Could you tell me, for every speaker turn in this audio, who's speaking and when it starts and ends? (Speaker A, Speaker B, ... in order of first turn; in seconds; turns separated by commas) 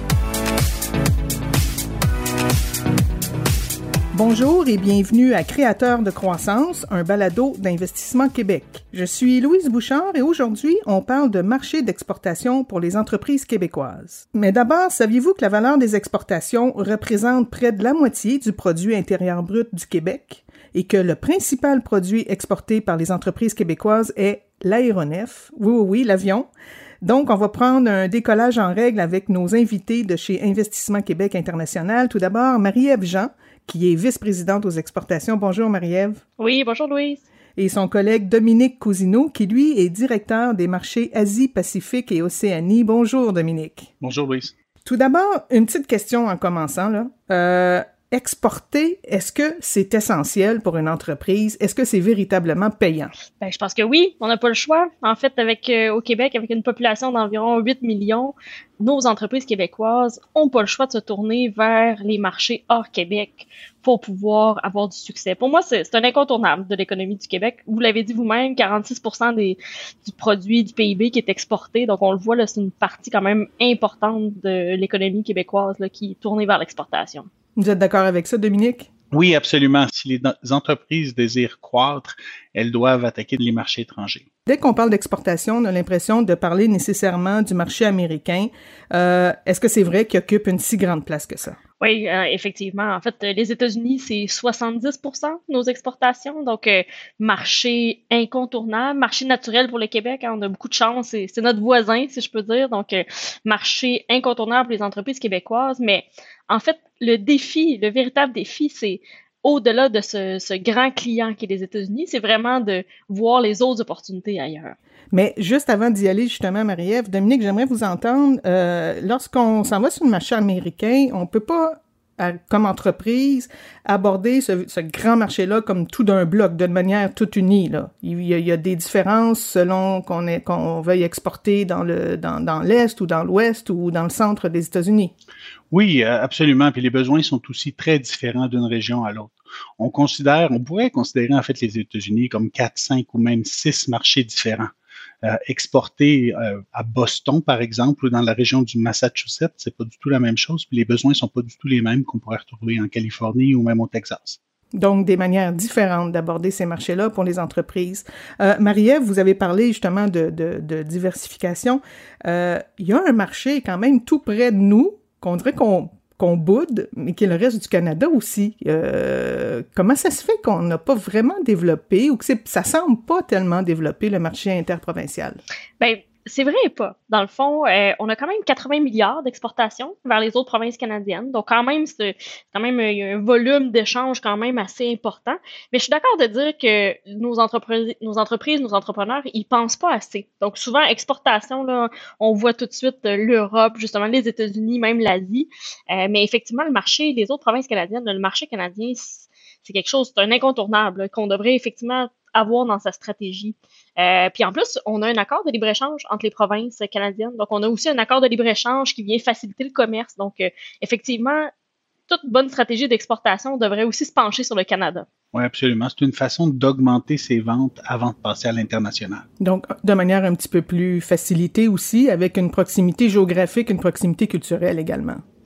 Speaker A: 4.1-26.5, Speaker A: 27.0-36.2, Speaker B: 36.4-37.2, Speaker A: 37.6-43.9, Speaker C: 44.0-44.5, Speaker A: 44.8-53.1, Speaker B: 53.4-77.3, Speaker A: 77.6-78.9, Speaker C: 79.1-84.2, Speaker A: 84.5-91.6, Speaker B: 91.8-114.8, Speaker A: 115.1-135.1, Speaker C: 135.7-144.7, Speaker C: 145.2-154.4, Speaker A: 154.8-175.4, Speaker B: 175.8-211.5, Speaker B: 212.1-215.1, Speaker C: 215.3-219.2, Speaker A: 219.4-225.2